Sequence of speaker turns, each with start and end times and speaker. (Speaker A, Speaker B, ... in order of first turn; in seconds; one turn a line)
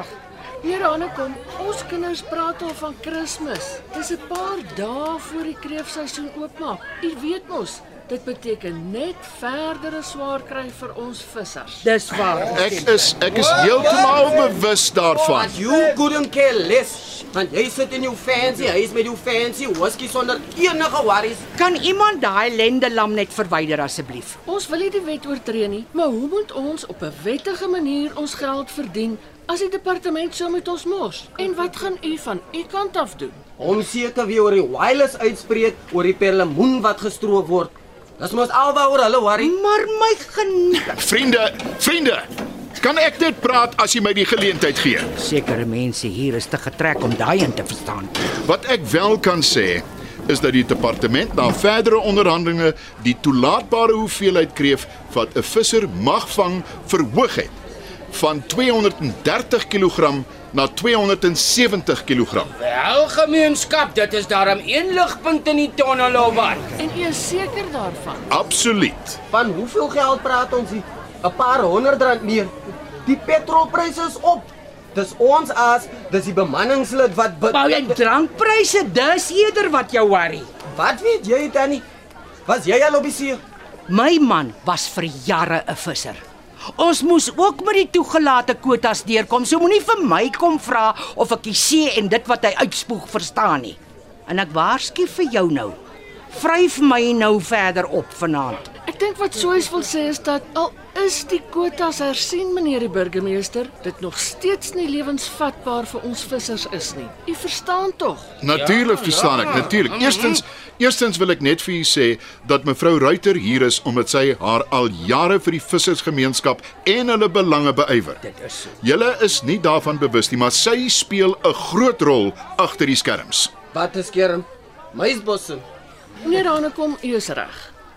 Speaker A: 0.6-11.8
Speaker B: 11.8-13.2
Speaker C: 12.5-15.5
Speaker D: 13.6-14.3
Speaker D: 15.2-21.4
Speaker B: 21.5-24.4
Speaker A: 24.5-33.4
Speaker D: 33.6-39.5
Speaker B: 39.4-41.0
Speaker C: 40.9-45.1
Speaker B: 45.1-48.1
Speaker C: 48.3-57.5
Speaker C: 58.1-62.5
Speaker E: 62.5-66.7
Speaker A: 66.8-68.3
Speaker C: 68.3-69.2
Speaker D: 69.3-72.5
Speaker D: 73.0-77.8
Speaker B: 77.5-80.5
Speaker D: 80.7-81.8
Speaker D: 82.5-83.4
Speaker B: 83.9-86.2
Speaker B: 86.8-95.8
Speaker B: 96.3-98.7
Speaker A: 98.9-108.3
Speaker C: 108.4-118.2
Speaker E: 108.5-109.7
Speaker B: 118.2-118.6
Speaker C: 118.8-123.5
Speaker D: 123.7-125.6
Speaker A: 126.2-127.7